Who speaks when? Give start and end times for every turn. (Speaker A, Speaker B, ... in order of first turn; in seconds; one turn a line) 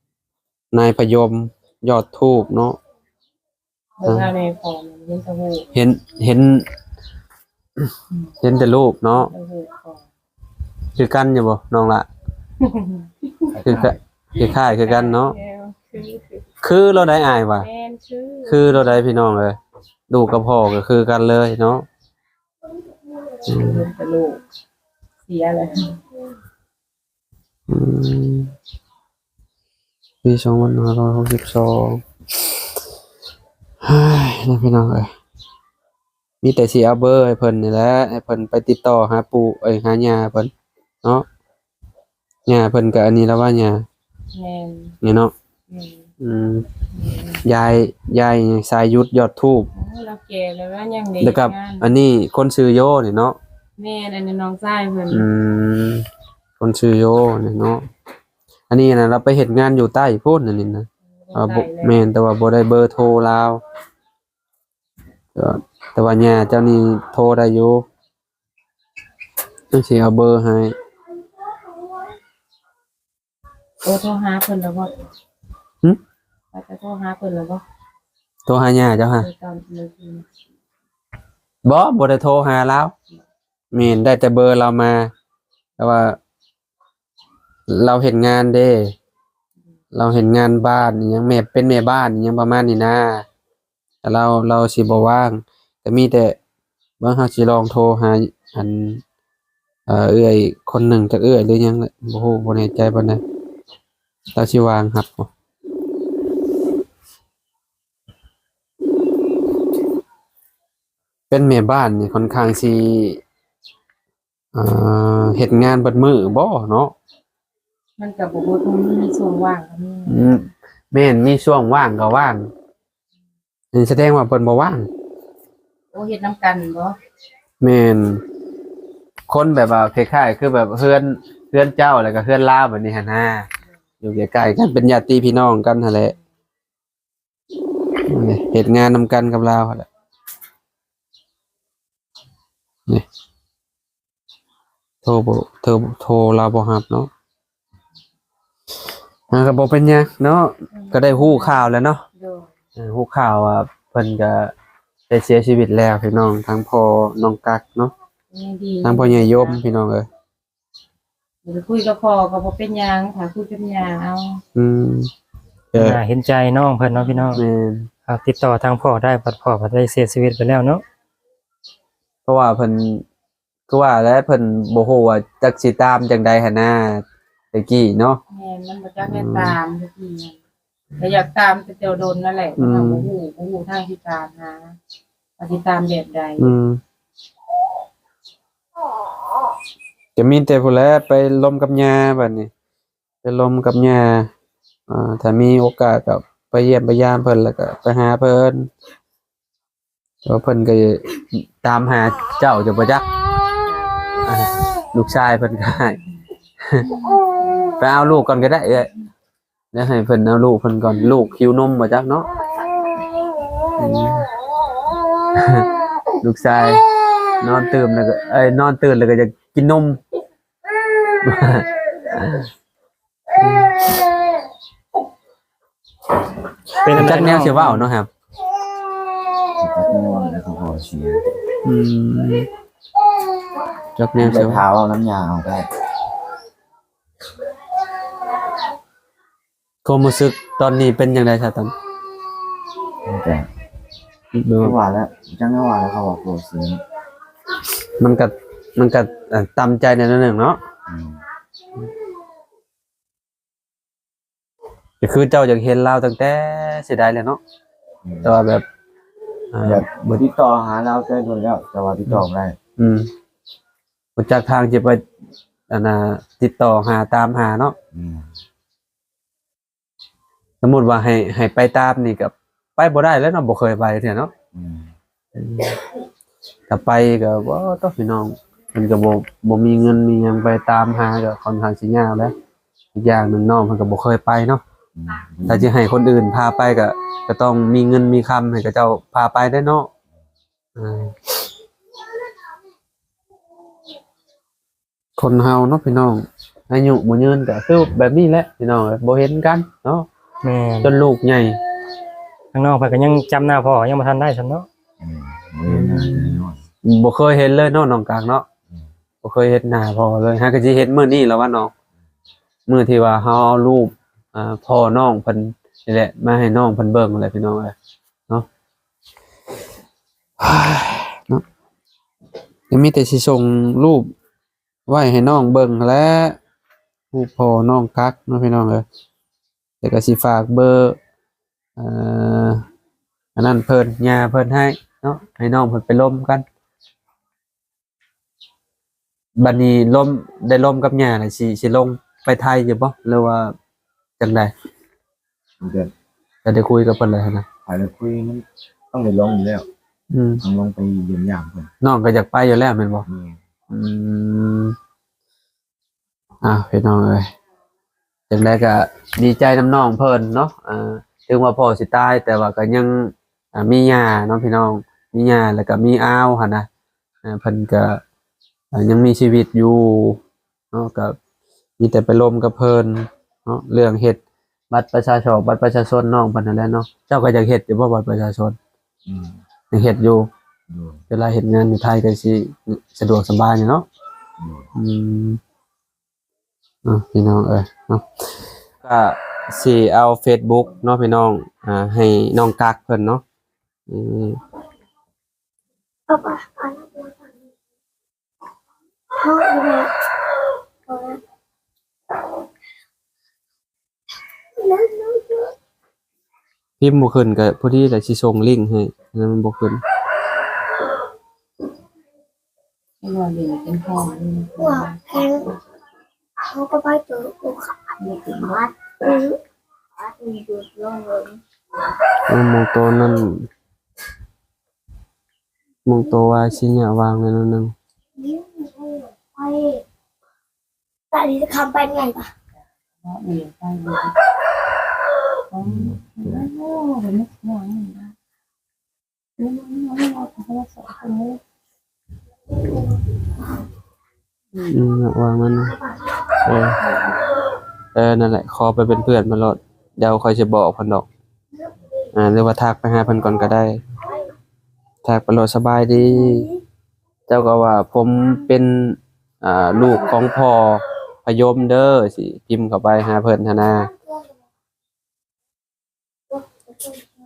Speaker A: 0.7-2.8
Speaker B: 4.0-5.7
Speaker A: 5.7-6.7
Speaker A: 8.4-9.3
Speaker B: 9.2-10.0
Speaker A: 10.9-12.1
Speaker B: 12.6-16.4
Speaker A: 13.6-15.3
Speaker A: 16.6-17.7
Speaker B: 17.6-19.0
Speaker A: 18.4-19.6
Speaker A: 20.1-21.9
Speaker A: 23.4-23.9
Speaker B: 23.5-24.4
Speaker B: 25.2-26.0
Speaker A: 27.7-28.5
Speaker A: 30.2-32.0
Speaker A: 33.8-35.1
Speaker A: 36.4-40.5
Speaker A: 42.5-43.9
Speaker B: 44.3-45.0
Speaker A: 45.0-45.3
Speaker B: 45.7-46.1
Speaker A: 46.2-46.7
Speaker B: 46.9-47.4
Speaker A: 47.4-49.7
Speaker B: 49.7-51.9
Speaker A: 51.2-53.4
Speaker B: 53.8-55.2
Speaker A: 55.1-56.0
Speaker A: 56.6-57.8
Speaker A: 58.7-63.6
Speaker B: 61.2-62.0
Speaker A: 65.3-67.8
Speaker A: 69.7-70.7
Speaker B: 73.8-74.9
Speaker B: 76.5-77.6
Speaker A: 78.5-79.3
Speaker B: 79.2-80.2
Speaker A: 81.6-82.9
Speaker A: 83.7-85.1
Speaker A: 85.8-86.2
Speaker A: 87.7-88.9
Speaker A: 89.9-93.2
Speaker A: 94.0-96.4
Speaker A: 97.0-99.0
Speaker A: 99.9-103.2
Speaker A: 104.3-105.3
Speaker A: 111.3-113.2
Speaker A: 114.5-116.9
Speaker B: 118.0-120.3
Speaker A: 120.0-122.5
Speaker A: 123.7-124.9
Speaker B: 125.9-127.0
Speaker A: 127.6-128.2
Speaker A: 129.3-133.5
Speaker A: 134.0-136.1
Speaker A: 138.1-139.9
Speaker A: 145.0-147.1
Speaker A: 149.3-152.0
Speaker B: 150.7-151.6
Speaker B: 152.1-152.5
Speaker A: 152.8-154.5
Speaker A: 155.1-157.9
Speaker B: 158.3-159.6
Speaker A: 158.8-160.1
Speaker B: 161.4-164.4
Speaker A: 164.5-165.1
Speaker A: 165.7-166.0
Speaker C: 165.8-167.4
Speaker A: 167.3-167.9
Speaker C: 168.1-170.8
Speaker A: 172.2-173.0
Speaker A: 173.7-178.2
Speaker B: 178.3-180.3
Speaker A: 179.0-179.6
Speaker B: 181.0-184.8
Speaker A: 182.6-183.1
Speaker B: 185.4-186.5
Speaker A: 186.4-186.8
Speaker A: 190.2-192.5
Speaker A: 193.2-194.3
Speaker A: 194.9-198.7
Speaker A: 200.2-203.1
Speaker A: 204.2-206.0
Speaker A: 206.7-207.0
Speaker A: 207.8-208.9
Speaker A: 209.7-212.3
Speaker A: 213.8-214.3
Speaker A: 215.3-215.7
Speaker A: 216.2-216.8
Speaker A: 217.4-220.0
Speaker A: 221.2-222.5
Speaker A: 223.4-223.8
Speaker C: 226.8-227.9
Speaker A: 226.9-228.1
Speaker D: 229.6-231.3
Speaker A: 231.6-232.5
Speaker A: 233.9-234.6
Speaker D: 234.2-235.7
Speaker A: 239.8-241.7
Speaker D: 243.0-243.5
Speaker A: 244.3-244.7
Speaker D: 244.6-246.8
Speaker A: 248.0-250.6
Speaker D: 250.9-251.2
Speaker A: 255.0-257.4
Speaker D: 258.0-258.3
Speaker A: 258.2-258.6
Speaker A: 259.5-260.2
Speaker D: 259.6-262.6
Speaker A: 262.8-263.1
Speaker A: 264.2-265.0
Speaker A: 265.7-267.7
Speaker D: 267.9-268.3
Speaker A: 270.6-274.3
Speaker D: 274.5-274.9
Speaker A: 275.3-275.8
Speaker A: 276.7-282.3
Speaker A: 282.9-284.6
Speaker D: 284.9-285.7
Speaker A: 285.4-289.9
Speaker A: 290.8-291.1
Speaker A: 295.2-300.1
Speaker C: 300.4-300.9
Speaker A: 300.8-301.6
Speaker C: 302.5-304.7
Speaker D: 305.0-306.6
Speaker A: 306.8-308.4
Speaker A: 309.2-311.7
Speaker A: 312.7-317.7
Speaker A: 320.4-321.4
Speaker A: 322.7-324.1
Speaker A: 324.9-326.4
Speaker A: 327.1-328.8
Speaker A: 329.8-331.0
Speaker A: 331.8-332.6
Speaker A: 333.4-336.4
Speaker A: 339.4-343.5
Speaker A: 344.2-344.5
Speaker D: 345.6-345.9
Speaker A: 346.4-347.4
Speaker D: 347.6-349.6
Speaker A: 350.1-350.4
Speaker D: 350.4-351.7
Speaker A: 351.8-353.1
Speaker D: 353.1-353.4
Speaker A: 353.7-354.8
Speaker A: 356.4-357.3
Speaker A: 358.3-366.7
Speaker A: 367.2-368.0
Speaker A: 368.7-370.2
Speaker A: 370.7-371.1
Speaker A: 371.8-374.2
Speaker A: 374.7-378.6
Speaker D: 379.1-379.4
Speaker A: 379.7-380.3
Speaker D: 380.7-381.0
Speaker A: 381.1-383.9
Speaker D: 384.4-384.6
Speaker A: 384.7-385.4
Speaker A: 386.8-388.0
Speaker A: 388.8-393.2
Speaker A: 393.9-394.4
Speaker E: 396.1-397.3
Speaker E: 399.1-399.9
Speaker E: 400.9-401.2
Speaker E: 404.6-405.5
Speaker A: 406.8-409.8
Speaker B: 413.0-415.5
Speaker E: 414.6-415.5
Speaker E: 416.4-419.4
Speaker B: 418.0-418.7
Speaker E: 420.0-421.4
Speaker A: 422.3-423.5
Speaker A: 425.9-427.7
Speaker E: 428.2-429.8
Speaker E: 431.1-432.3
Speaker B: 433.0-434.1
Speaker B: 435.5-438.1
Speaker D: 435.7-436.0
Speaker B: 439.4-441.4
Speaker B: 444.5-444.8
Speaker A: 444.7-445.8
Speaker A: 446.4-446.8
Speaker B: 446.8-447.2
Speaker A: 447.9-451.1
Speaker A: 452.1-453.8
Speaker A: 455.0-456.5
Speaker A: 457.3-463.9
Speaker E: 466.3-466.9